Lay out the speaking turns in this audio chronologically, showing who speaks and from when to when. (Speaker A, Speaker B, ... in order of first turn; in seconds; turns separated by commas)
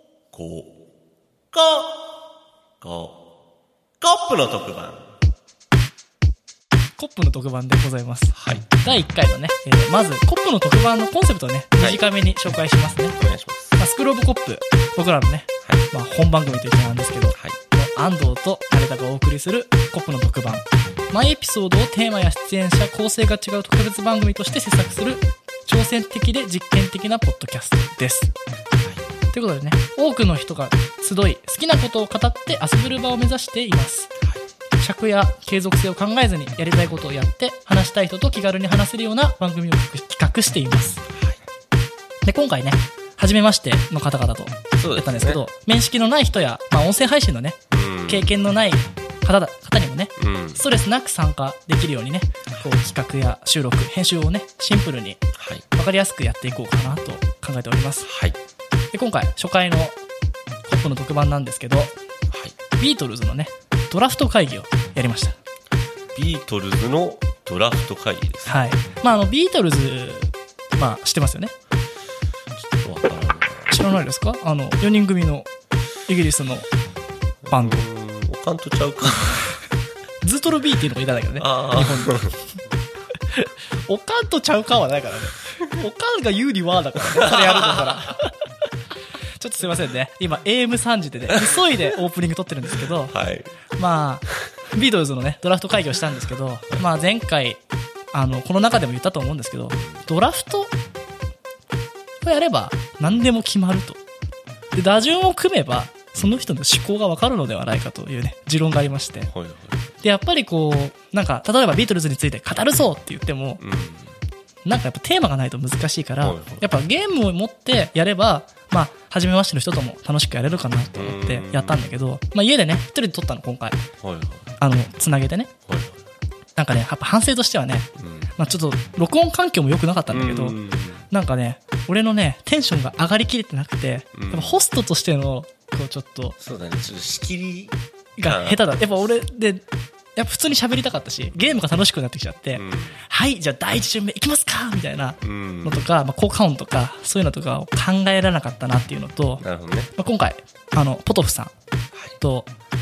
Speaker A: 0.3-0.7, Speaker A: 1.5-2.0, Speaker A: 2.8-3.2, Speaker A: 4.0-5.0, Speaker B: 7.0-13.2, Speaker A: 8.3-8.9, Speaker A: 13.2-13.8, Speaker B: 13.8-28.3, Speaker B: 29.3-34.1, Speaker B: 34.8-41.0, Speaker B: 42.2-58.1, Speaker A: 44.8-45.4, Speaker A: 47.7-48.3, Speaker A: 50.2-50.6, Speaker A: 55.4-55.6, Speaker A: 58.0-58.4, Speaker B: 58.9-60.0, Speaker B: 60.7-61.9, Speaker A: 62.3-62.5, Speaker B: 62.8-65.4, Speaker A: 66.1-68.6, Speaker B: 68.5-71.5, Speaker A: 72.6-73.8, Speaker B: 73.7-75.5, Speaker B: 76.1-76.7, Speaker A: 77.4-79.6, Speaker B: 77.5-77.8, Speaker B: 80.2-82.3, Speaker A: 81.4-82.4, Speaker B: 83.3-88.3, Speaker A: 87.2-88.0, Speaker B: 89.4-93.1, Speaker A: 91.3-91.9, Speaker A: 92.9-93.5, Speaker B: 93.8-97.6, Speaker B: 98.1-100.7, Speaker B: 102.2-104.0, Speaker B: 104.8-109.3, Speaker A: 106.2-106.5, Speaker A: 109.3-109.8, Speaker B: 110.0-113.6, Speaker A: 113.6-114.1, Speaker B: 114.7-123.8, Speaker A: 116.2-116.6, Speaker A: 120.9-121.9, Speaker A: 124.0-124.5, Speaker B: 124.6-125.5, Speaker A: 125.7-126.0, Speaker B: 126.6-130.6, Speaker A: 128.0-128.3, Speaker A: 130.1-131.1, Speaker B: 131.1-136.4, Speaker A: 134.2-134.6, Speaker A: 136.4-139.0, Speaker B: 138.2-139.6, Speaker B: 140.2-149.4, Speaker A: 141.3-141.6, Speaker A: 142.5-143.0, Speaker A: 145.2-145.9, Speaker A: 149.4-149.9, Speaker B: 149.9-151.5, Speaker B: 152.2-152.5